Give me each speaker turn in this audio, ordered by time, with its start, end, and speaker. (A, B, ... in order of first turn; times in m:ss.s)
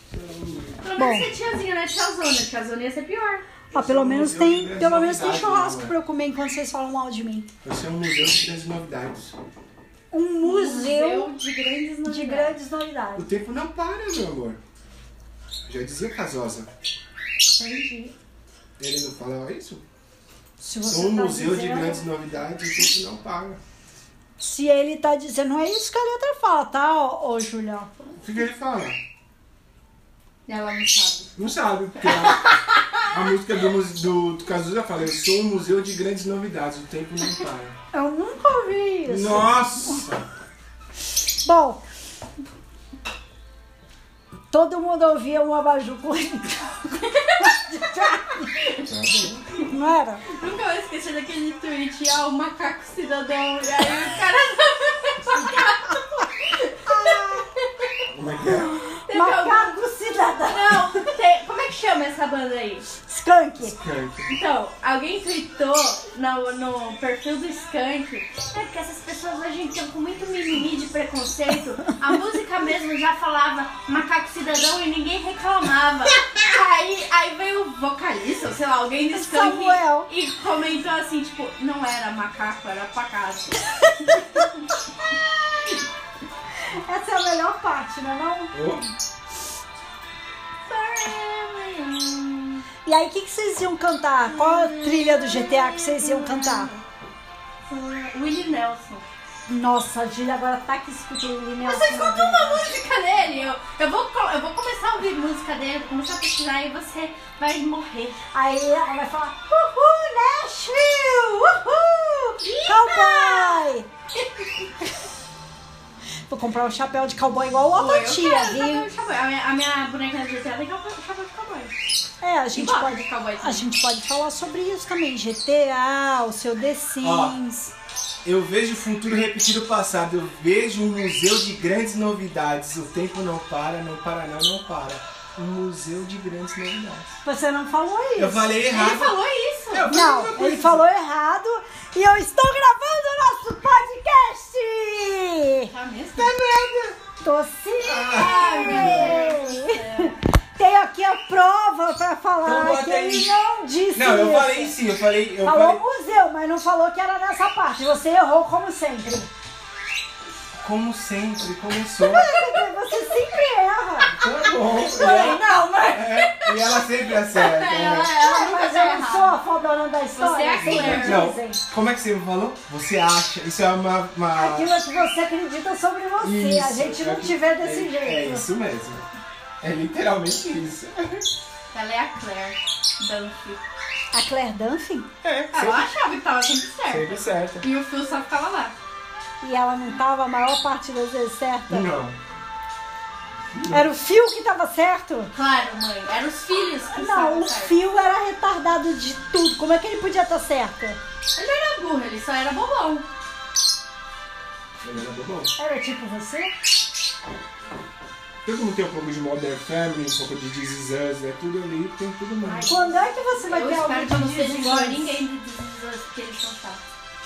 0:00.1-0:00.8 A
0:00.8-0:03.4 B
0:01.0-0:01.3 C
0:03.7-0:05.9 A
0:03.7-0:07.5 C
0:07.6-0:09.4 A
0:10.1-0:11.3 C
0:10.4-0:12.6 B
0:12.0-0:13.3 C
0:13.2-0:14.6 A
0:15.7-0:16.7 A
0:17.5-0:18.1 C
0:18.8-0:19.8 A
0:20.6-0:22.0 C
0:20.9-0:23.6 A
0:24.4-0:27.9 C
0:28.2-0:29.0 A
0:30.5-0:31.3 B
0:31.4-0:32.5 A
0:32.0-0:33.0 B
0:33.0-0:37.8 A
0:37.9-0:40.0 C
0:39.0-0:40.2 A
0:41.4-0:41.8 C
0:44.5-0:48.5 C
0:47.0-0:48.9 B
0:48.8-0:49.6 A
0:49.6-0:50.2 C
0:50.3-0:57.9 B
0:56.8-0:57.4 C
0:58.1-0:58.7 A
0:58.6-1:01.0 C
0:58.8-0:59.8 B
1:00.4-1:02.9 B
1:03.0-1:03.8 C
1:03.6-1:04.3 A
1:04.3-1:24.6 B
1:19.1-1:20.1 C
1:26.8-1:28.5 C
1:28.5-1:28.9 A
1:30.7-1:32.6 B
1:32.8-1:36.7 C
1:34.3-1:36.8 B
1:37.7-1:39.0 B
1:39.5-1:42.7 C
1:41.6-1:48.2 B
1:48.3-1:53.9 C
1:52.4-1:54.9 B
1:56.3-1:58.8 C
1:57.7-2:01.7 B
2:02.2-2:07.7 C
2:02.5-2:03.7 B
2:07.0-2:07.3 A
2:08.2-2:17.2 A
2:17.2-2:18.5 C
2:18.2-2:19.2 A
2:18.6-2:20.0 B
2:19.7-2:20.8 A
2:19.9-2:25.7 C
2:25.7-2:26.3 B
2:26.2-2:27.0 A
2:27.2-2:34.8 C
2:27.8-2:29.2 A
2:28.1-2:30.2 B
2:32.4-2:33.3 A
2:33.9-2:35.8 A
2:35.4-2:39.3 C
2:40.6-2:42.3 A
2:42.0-2:44.2 C
2:44.2-2:48.1 A
2:44.6-2:49.4 B
2:48.2-2:51.6 C
2:50.1-2:51.3 B
2:50.6-2:54.7 A
2:54.3-2:58.4 C
2:56.2-2:59.0 A
2:59.6-3:01.2 A
3:01.7-3:03.6 B
3:04.1-3:05.1 C
3:05.2-3:05.9 A
3:05.5-3:08.7 B
3:06.8-3:07.6 A
3:09.4-3:11.9 C
3:11.7-3:12.2 A
3:13.5-3:13.9 A
3:13.7-3:15.3 C
3:15.3-3:17.7 B
3:16.9-3:21.0 C
3:21.3-3:23.0 B
3:24.8-3:25.5 A
3:25.6-3:26.5 C
3:28.4-3:32.7 A
3:32.4-3:36.8 B
3:32.7-3:35.2 C